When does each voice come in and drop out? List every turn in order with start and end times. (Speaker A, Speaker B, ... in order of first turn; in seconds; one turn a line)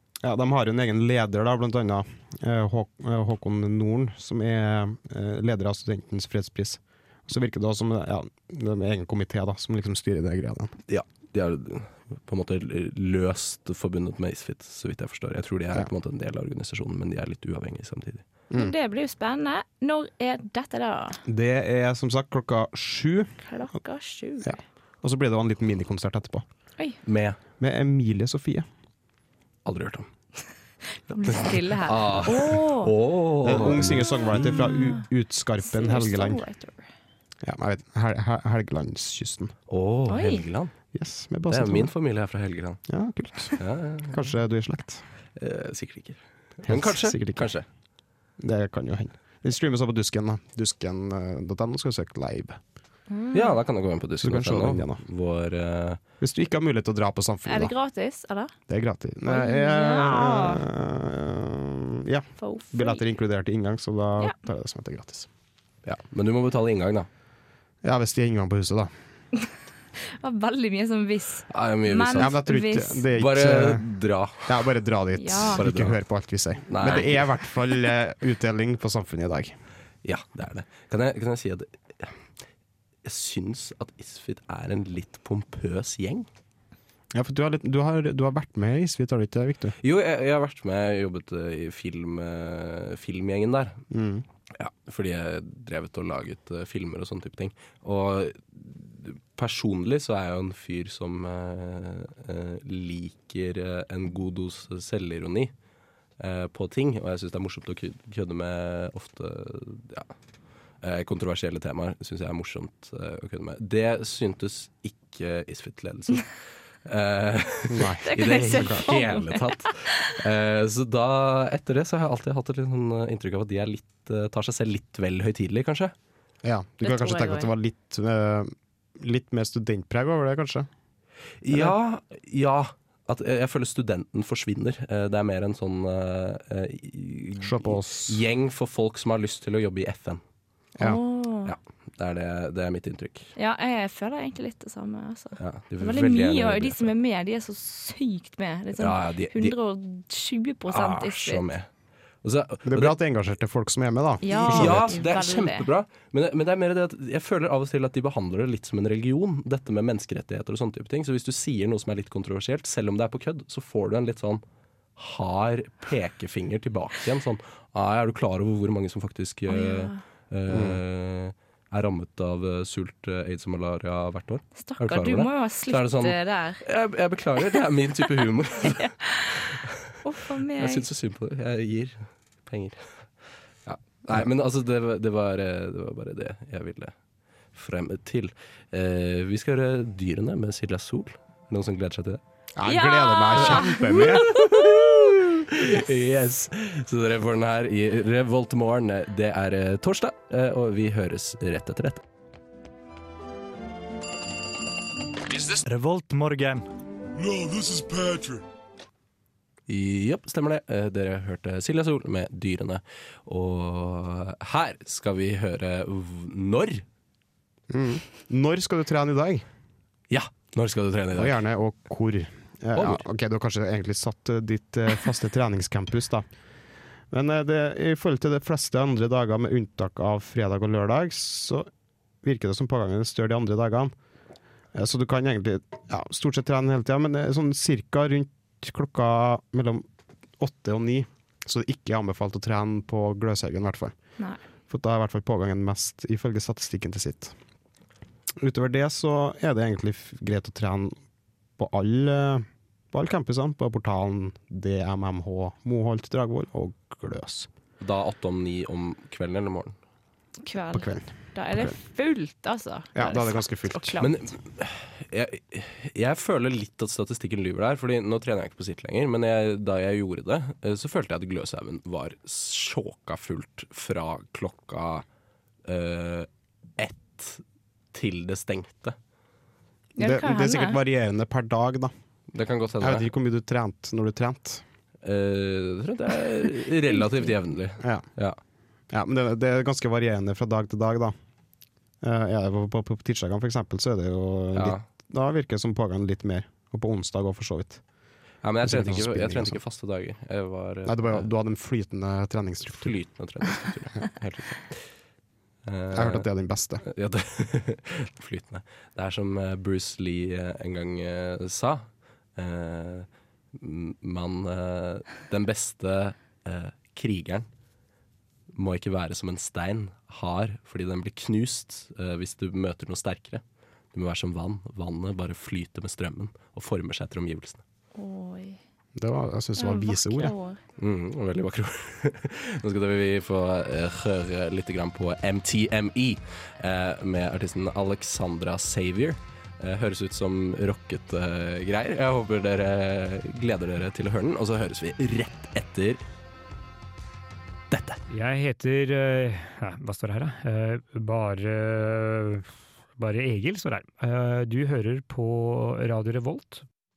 Speaker A: 0.2-10.7
Speaker B: 10.9-18.2
Speaker C: 18.5-21.2
Speaker A: 21.2-23.3
Speaker C: 23.4-24.6
Speaker A: 24.4-26.4
Speaker B: 27.0-27.4
Speaker A: 27.6-28.6
Speaker B: 29.6-30.1
Speaker C: 31.0-32.9
Speaker B: 31.3-34.1
Speaker A: 33.4-36.4
Speaker C: 34.3-35.0
Speaker C: 35.6-36.9
Speaker A: 37.4-39.5
Speaker B: 39.7-40.7
Speaker C: 40.1-40.4
Speaker A: 40.9-41.9
Speaker B: 41.5-42.8
Speaker A: 42.9-45.0
Speaker B: 43.6-44.2
Speaker B: 45.4-47.6
Speaker A: 46.6-47.5
Speaker A: 48.4-52.6
Speaker C: 53.1-53.6
Speaker B: 53.3-56.0
Speaker A: 54.2-55.0
Speaker A: 56.2-57.7
Speaker C: 57.5-58.5
Speaker A: 58.7-65.3
Speaker C: 59.2-60.6
Speaker C: 62.4-63.0
Speaker B: 65.8-67.1
Speaker A: 67.8-68.9
Speaker C: 70.0-73.0
Speaker B: 71.5-72.3
Speaker A: 72.1-73.8
Speaker B: 73.1-74.6
Speaker A: 74.4-79.5
Speaker C: 75.2-75.6
Speaker B: 75.6-76.0
Speaker B: 76.7-77.2
Speaker B: 80.0-82.1
Speaker B: 83.0-86.3
Speaker A: 87.1-89.8
Speaker B: 89.8-93.8
Speaker A: 93.9-94.2
Speaker B: 94.6-105.5
Speaker B: 106.2-110.1
Speaker B: 110.8-116.3
Speaker B: 116.8-125.9
Speaker A: 117.7-118.8
Speaker C: 118.0-120.1
Speaker A: 126.4-130.7
Speaker C: 126.8-127.5
Speaker B: 131.4-140.2
Speaker A: 137.4-138.2
Speaker C: 140.8-141.5
Speaker B: 141.4-143.3
Speaker C: 143.3-151.4
Speaker B: 145.4-146.9
Speaker B: 148.8-149.6
Speaker B: 150.7-151.7
Speaker B: 152.2-152.9
Speaker A: 152.7-155.0
Speaker C: 154.2-155.7
Speaker B: 154.5-164.4
Speaker B: 165.0-179.9
Speaker C: 169.5-170.0
Speaker A: 170.5-170.8
Speaker C: 174.6-176.6
Speaker C: 178.6-179.4
Speaker C: 180.0-180.8
Speaker B: 180.5-183.0
Speaker B: 183.6-186.9
Speaker B: 187.5-192.2
Speaker A: 192.6-194.3
Speaker C: 192.6-194.8
Speaker B: 193.5-202.0
Speaker D: 205.3-206.6
Speaker D: 207.4-208.4
Speaker B: 209.7-216.8
Speaker A: 217.7-219.4
Speaker B: 220.1-221.4
Speaker A: 221.1-226.2
Speaker B: 222.7-223.0
Speaker A: 227.1-231.7
Speaker A: 232.2-233.9
Speaker A: 234.7-239.8
Speaker A: 240.4-243.9
Speaker A: 244.7-247.3
Speaker A: 248.4-251.0
Speaker A: 251.6-257.5
Speaker B: 257.8-259.7
Speaker C: 260.4-264.2
Speaker A: 260.7-261.8
Speaker A: 262.9-264.0
Speaker B: 264.0-275.0
Speaker B: 275.6-277.4
Speaker B: 277.9-278.9
Speaker C: 280.0-280.8
Speaker A: 280.0-281.9
Speaker B: 282.3-283.1
Speaker A: 282.8-284.6
Speaker B: 285.0-288.4
Speaker A: 287.8-288.1
Speaker A: 288.9-291.1
Speaker A: 292.0-297.8
Speaker B: 294.5-294.8
Speaker B: 298.4-301.3
Speaker A: 298.6-299.6
Speaker A: 300.9-302.9
Speaker B: 302.6-304.9
Speaker B: 305.6-306.2
Speaker A: 305.9-306.8
Speaker B: 306.8-317.4
Speaker B: 318.5-323.4
Speaker B: 323.9-327.6
Speaker C: 327.9-328.6
Speaker A: 328.9-330.3
Speaker C: 329.6-330.6
Speaker B: 330.8-346.0
Speaker B: 347.7-348.0
Speaker E: 348.1-356.6